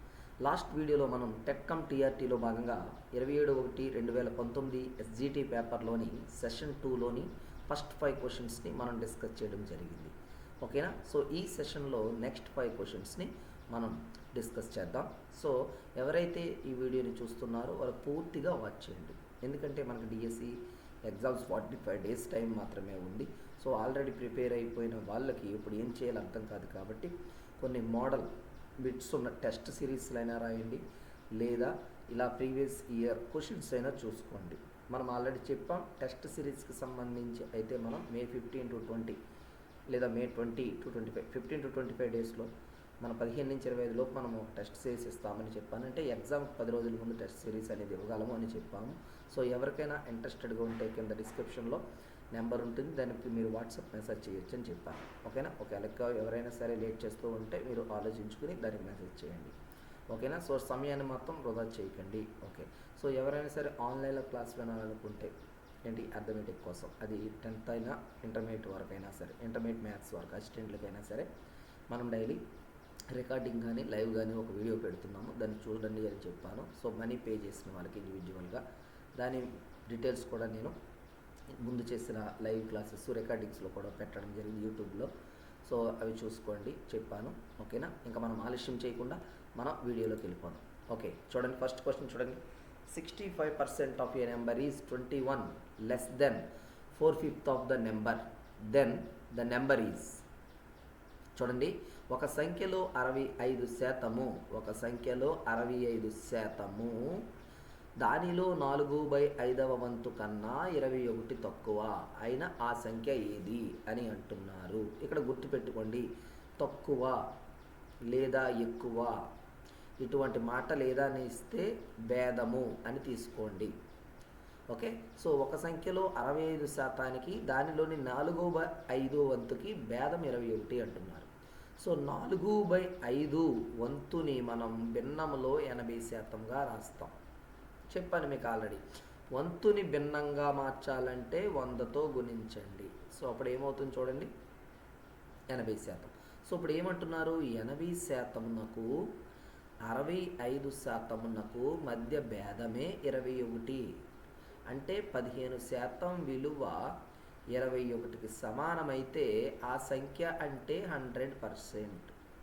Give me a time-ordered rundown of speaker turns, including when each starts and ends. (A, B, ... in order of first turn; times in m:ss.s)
0:00.4-0:20.5 A
0:21.1-0:28.3 A
0:28.8-0:30.8 A
0:31.4-0:39.2 A
0:39.9-0:59.5 A
1:00.1-1:05.3 A
1:05.8-1:11.3 A
1:11.9-1:12.4 A
1:13.1-1:18.6 A
1:19.2-1:20.7 A
1:21.5-1:25.1 A
1:25.6-1:40.2 A
1:41.4-1:47.2 A
1:48.0-1:56.0 A
1:56.6-1:57.2 A
1:58.1-1:59.2 A
2:00.0-2:03.7 A
2:04.7-2:17.1 A
2:17.9-2:18.8 A
2:19.3-2:24.3 A
2:25.5-2:28.9 A
2:29.8-2:33.9 A
2:34.7-2:36.9 A
2:37.5-2:42.1 A